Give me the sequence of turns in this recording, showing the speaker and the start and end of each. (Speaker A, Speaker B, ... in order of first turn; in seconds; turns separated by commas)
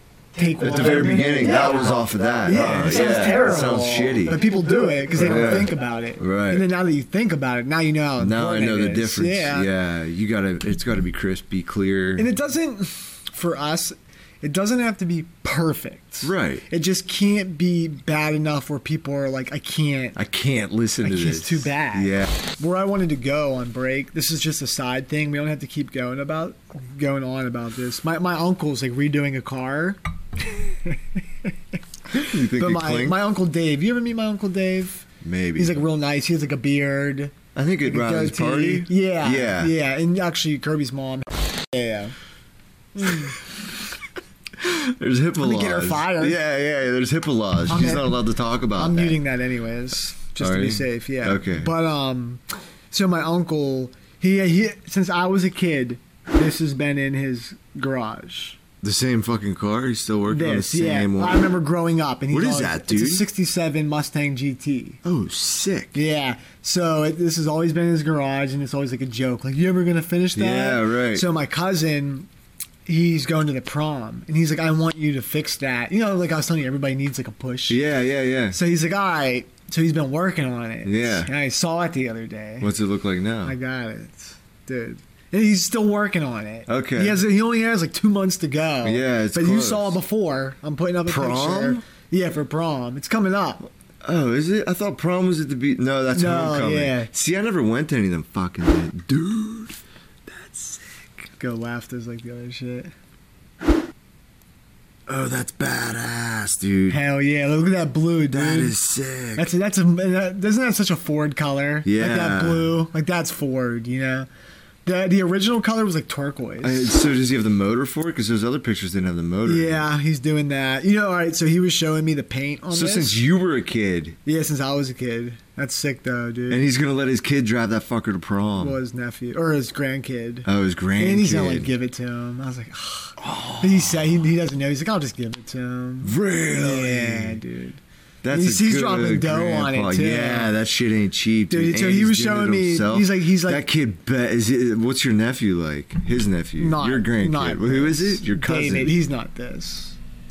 Speaker A: 0.3-9.7, Speaker B: 0.6-4.5, Speaker B: 5.1-6.7, Speaker B: 8.2-12.3, Speaker A: 12.2-20.2, Speaker B: 16.2-16.6, Speaker B: 20.2-22.3, Speaker A: 21.0-30.0, Speaker A: 30.7-31.5, Speaker B: 32.1-33.2, Speaker A: 32.5-35.0, Speaker B: 35.2-35.8, Speaker A: 35.6-42.1, Speaker B: 37.5-39.7, Speaker A: 43.0-43.4, Speaker B: 44.6-49.2, Speaker A: 45.4-46.4, Speaker A: 47.7-48.2, Speaker A: 48.8-58.6, Speaker B: 50.4-51.7, Speaker B: 58.8-61.5, Speaker A: 60.3-65.0, Speaker B: 62.3-63.3, Speaker B: 65.0-66.0, Speaker A: 65.9-72.3, Speaker B: 70.3-71.3, Speaker A: 72.9-77.8, Speaker B: 77.7-78.6, Speaker A: 78.5-82.7, Speaker B: 80.8-81.3, Speaker B: 82.6-83.5, Speaker A: 83.4-93.6, Speaker B: 86.7-87.2, Speaker B: 88.8-90.0, Speaker B: 91.1-91.8, Speaker B: 94.0-101.3, Speaker A: 96.1-97.1, Speaker A: 101.4-102.9, Speaker B: 105.1-107.0, Speaker A: 106.9-108.8, Speaker B: 108.3-109.5, Speaker A: 109.4-114.3, Speaker B: 111.8-112.8, Speaker A: 114.8-117.0, Speaker B: 116.6-119.8, Speaker A: 119.5-123.2, Speaker B: 122.7-124.2, Speaker A: 124.2-126.6, Speaker B: 126.5-128.8, Speaker A: 128.6-140.5, Speaker B: 130.5-131.7, Speaker B: 133.2-134.2, Speaker B: 136.0-137.4, Speaker B: 138.2-149.0, Speaker A: 141.5-143.6, Speaker A: 146.6-150.0